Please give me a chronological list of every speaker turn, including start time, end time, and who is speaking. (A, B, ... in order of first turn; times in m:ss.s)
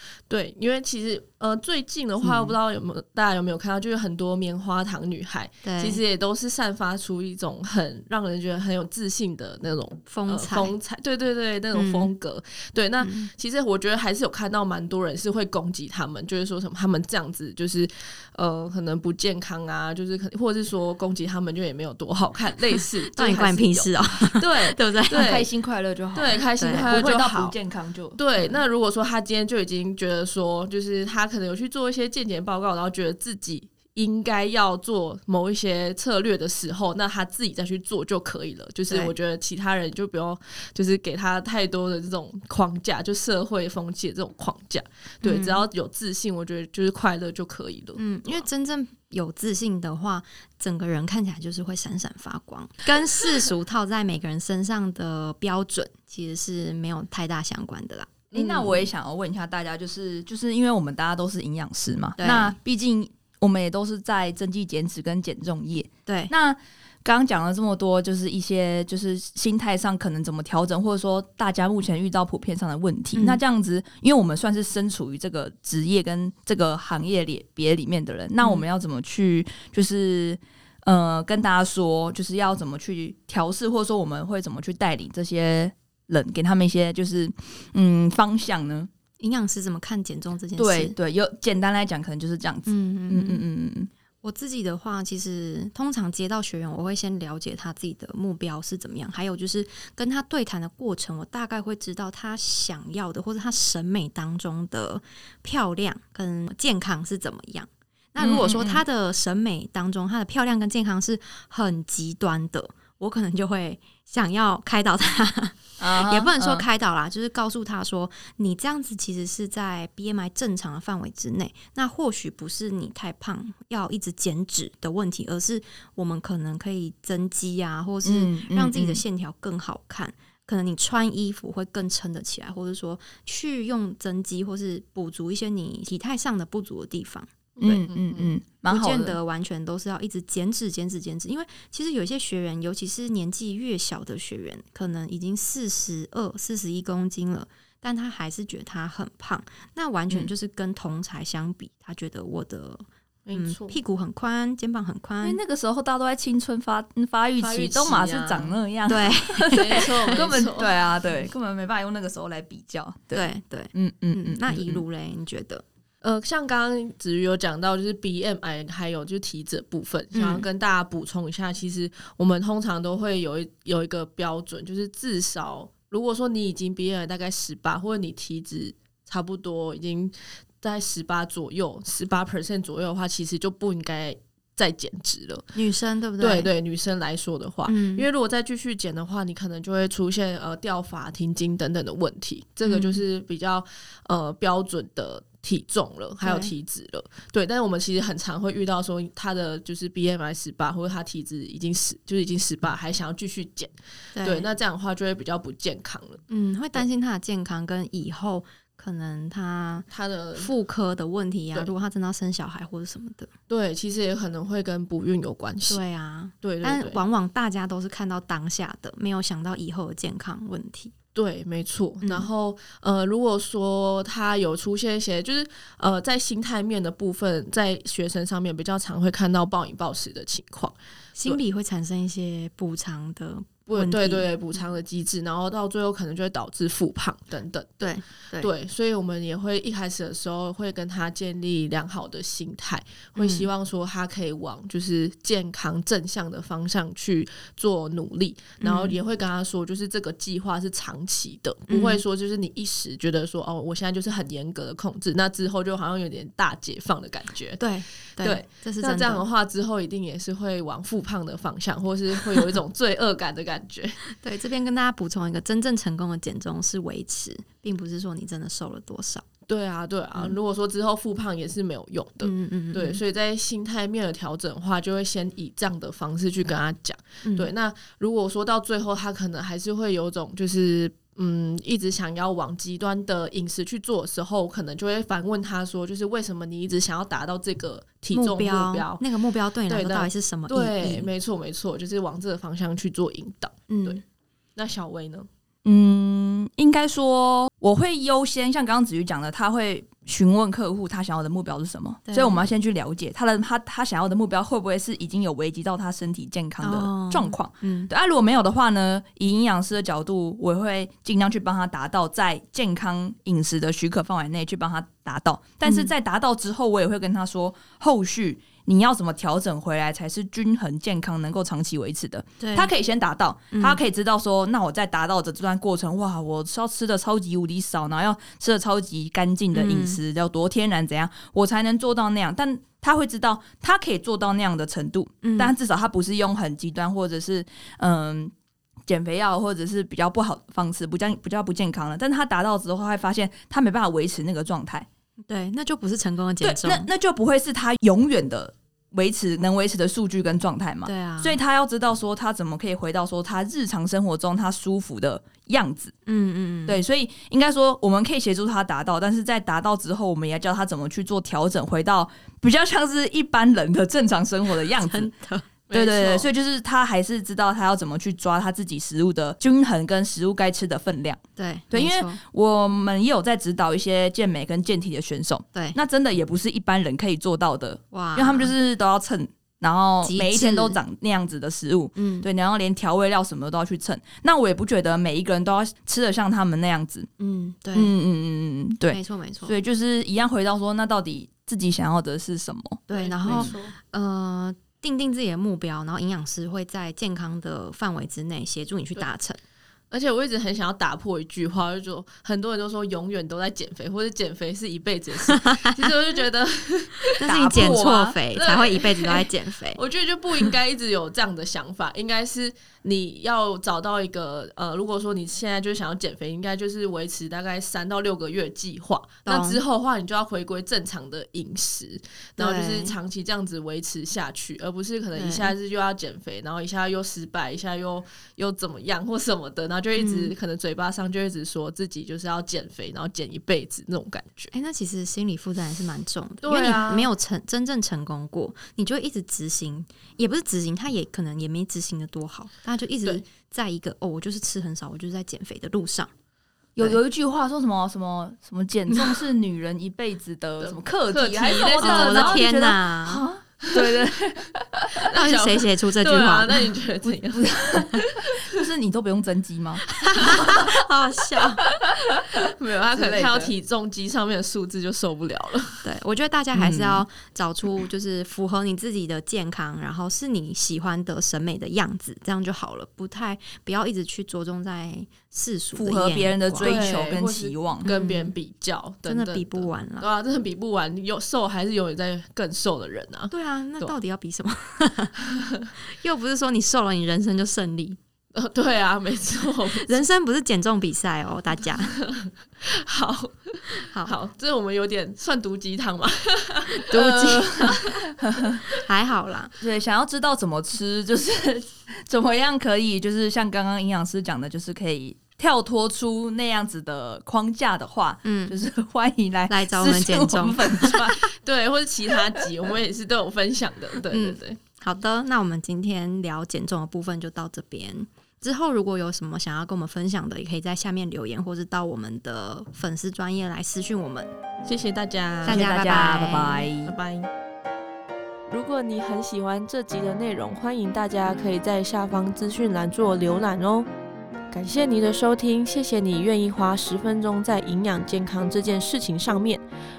0:00.3-0:24.4 A
0:02.2-0:02.5 B
0:05.6-0:06.0 B
0:10.1-0:10.7 B
0:11.7-0:12.1 B
0:13.0-0:13.3 B
0:23.1-0:25.3 B
0:24.4-0:28.5 C
0:25.1-0:25.5 A
0:26.1-0:27.6 A
0:26.6-0:26.9 B
0:28.2-0:48.4 A
0:45.2-0:45.6 B
0:48.0-0:58.9 B
0:58.3-1:28.9 C
1:02.2-1:02.6 B
1:06.0-1:06.3 B
1:13.1-1:13.4 B
1:29.2-1:30.9 B
1:30.6-1:33.9 C
1:32.6-1:33.4 B
1:34.2-2:17.8 B
1:48.2-1:48.8 C
1:55.8-1:56.6 C
2:08.0-2:09.0 C
2:17.6-2:18.3 A
2:17.6-2:19.2 C
2:18.6-2:35.4 B
2:33.2-2:33.8 A
2:35.2-2:44.8 C
2:37.4-2:38.6 A
2:38.9-2:40.4 B
2:39.5-2:40.7 A
2:43.1-2:45.6 B
2:46.0-3:05.4 A
2:50.1-2:50.4 B
3:05.5-3:06.5 B
3:06.2-3:26.2 A
3:07.7-3:08.0 B
3:12.6-3:13.0 B
3:16.2-3:16.5 B
3:24.2-3:24.5 B
3:26.3-3:33.3 B
3:29.9-3:30.5 A
3:33.5-3:35.8 A
3:35.7-3:40.9 B
3:36.4-3:37.0 A
3:41.1-3:51.4 A
3:42.0-3:42.3 B
3:51.2-3:54.3 B
3:53.7-4:17.6 A
3:57.8-3:58.5 B
4:03.2-4:03.5 B
4:08.6-4:09.0 B
4:11.7-4:12.0 B
4:17.6-4:19.2 B
4:18.2-4:24.0 A
4:24.2-4:29.2 B
4:29.5-4:49.0 A
4:32.2-4:33.0 B
4:37.2-4:37.5 B
4:48.1-4:51.1 B
4:49.7-4:54.0 A
4:53.7-4:54.0 B
4:54.6-4:55.3 A
4:55.6-5:38.3 C
5:02.1-5:02.5 B
5:06.6-5:07.9 B
5:15.6-5:15.9 B
5:22.4-5:22.7 B
5:23.5-5:23.8 B
5:29.5-5:30.0 B
5:35.2-5:35.5 B
5:38.8-5:44.9 C
5:45.3-5:46.9 B
5:46.4-5:55.9 C
5:50.8-5:51.4 B
5:56.0-5:56.8 B
5:56.7-6:05.1 C
6:04.8-6:05.6 B
6:05.7-6:06.2 A
6:05.7-6:11.2 C
6:11.4-6:12.2 B
6:11.7-6:27.1 C
6:17.9-6:18.5 B
6:20.0-6:20.8 B
6:21.9-6:22.3 B
6:27.2-6:27.9 B
6:27.7-6:33.5 C
6:28.9-6:29.6 B
6:32.9-6:39.4 B
6:32.9-6:33.7 A
6:39.9-6:47.6 A
6:47.2-6:49.8 B
6:47.2-6:48.2 C
6:48.3-7:14.5 A
6:59.2-6:59.6 B
7:02.4-7:02.9 B
7:05.1-7:05.5 B
7:10.0-7:10.3 B
7:14.5-7:26.1 B
7:16.4-7:17.1 A
7:26.8-7:34.6 C
7:30.6-7:32.4 A
7:31.5-7:33.2 B
7:35.1-7:36.6 B
7:35.1-7:38.4 A
7:37.0-7:40.6 C
7:40.0-7:41.6 B
7:40.2-7:40.5 A
7:42.4-7:45.8 A
7:43.0-7:43.5 C
7:45.8-7:56.9 B
7:46.5-7:47.0 C
7:55.8-7:57.9 C
7:56.6-8:04.0 A
7:57.8-7:58.3 B
7:59.0-8:00.1 B
8:03.3-8:05.3 B
8:05.8-8:08.0 B
8:08.3-8:10.0 A
8:09.8-8:12.0 B
8:11.9-8:18.0 A
8:16.7-8:17.8 B
8:17.2-8:18.6 C
8:18.8-8:19.6 B
8:19.6-8:31.2 C
8:28.2-8:28.6 B
8:29.5-8:31.0 B
8:31.0-8:34.6 A
8:34.1-8:44.3 B
8:44.6-8:46.0 A
8:45.4-8:46.7 B
8:45.5-8:46.9 C
8:46.8-8:47.3 A
8:48.5-8:52.4 A
8:48.5-8:53.8 D
8:53.0-8:53.8 A
8:54.5-8:59.5 D
8:54.5-8:59.6 A